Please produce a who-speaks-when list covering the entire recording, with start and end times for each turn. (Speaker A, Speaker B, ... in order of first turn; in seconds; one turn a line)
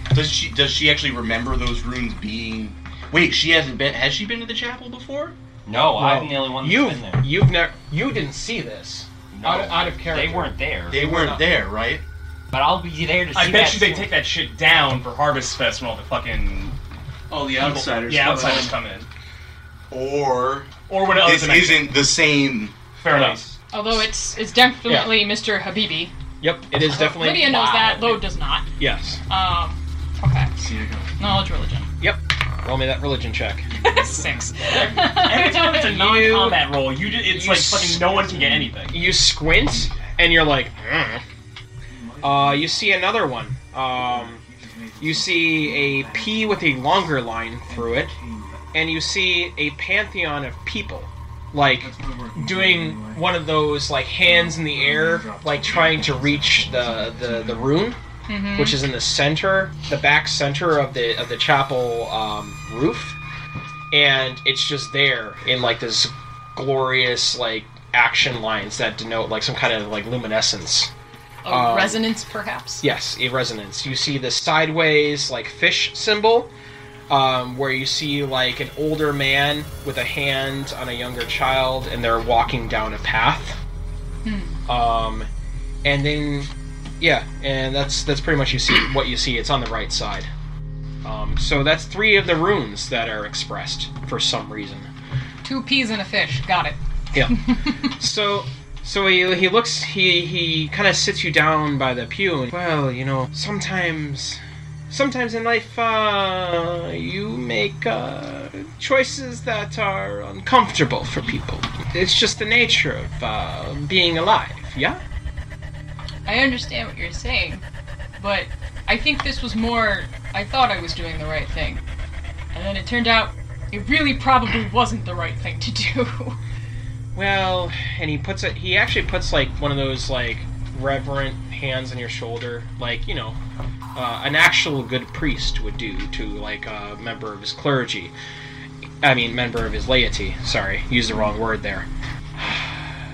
Speaker A: 0.1-5.4
Speaker B: 5.7-7.3
Speaker C: 5.9-11.5
Speaker B: 9.3-11.0
Speaker A: 10.9-12.0
Speaker B: 12.5-14.1
Speaker D: 13.3-16.8
Speaker E: 17.3-18.8
Speaker D: 17.6-19.1
Speaker A: 19.9-22.8
Speaker D: 20.9-22.0
Speaker D: 23.0-23.4
Speaker C: 23.1-23.4
Speaker F: 23.7-26.1
Speaker C: 24.9-25.2
Speaker C: 26.4-27.8
Speaker F: 26.8-28.7
Speaker C: 28.8-29.2
Speaker F: 29.3-30.6
Speaker E: 30.6-31.3
Speaker F: 31.2-31.9
Speaker C: 32.0-33.7
Speaker F: 33.7-35.9
Speaker E: 33.8-35.2
Speaker D: 34.6-39.1
Speaker C: 35.7-36.7
Speaker C: 37.2-38.3
Speaker E: 38.2-38.8
Speaker C: 38.9-41.2
Speaker E: 41.9-43.0
Speaker C: 42.2-44.4
Speaker E: 43.9-46.8
Speaker C: 45.0-48.2
Speaker E: 47.7-48.7
Speaker C: 48.7-58.0
Speaker E: 51.8-53.4
Speaker E: 54.2-57.9
Speaker F: 58.3-58.8
Speaker C: 58.5-63.2
Speaker C: 63.9-70.9
Speaker F: 71.4-72.8
Speaker C: 71.5-72.0
Speaker C: 72.8-76.5
Speaker C: 77.1-83.6
Speaker F: 84.2-84.6
Speaker C: 84.7-85.3
Speaker C: 85.8-90.3
Speaker C: 91.0-94.9
Speaker F: 95.4-96.8
Speaker C: 97.1-115.0
Speaker F: 97.3-97.6
Speaker F: 116.3-117.6
Speaker F: 118.2-121.8
Speaker F: 122.5-126.4
Speaker C: 127.2-133.4
Speaker C: 133.9-138.1
Speaker C: 139.0-142.9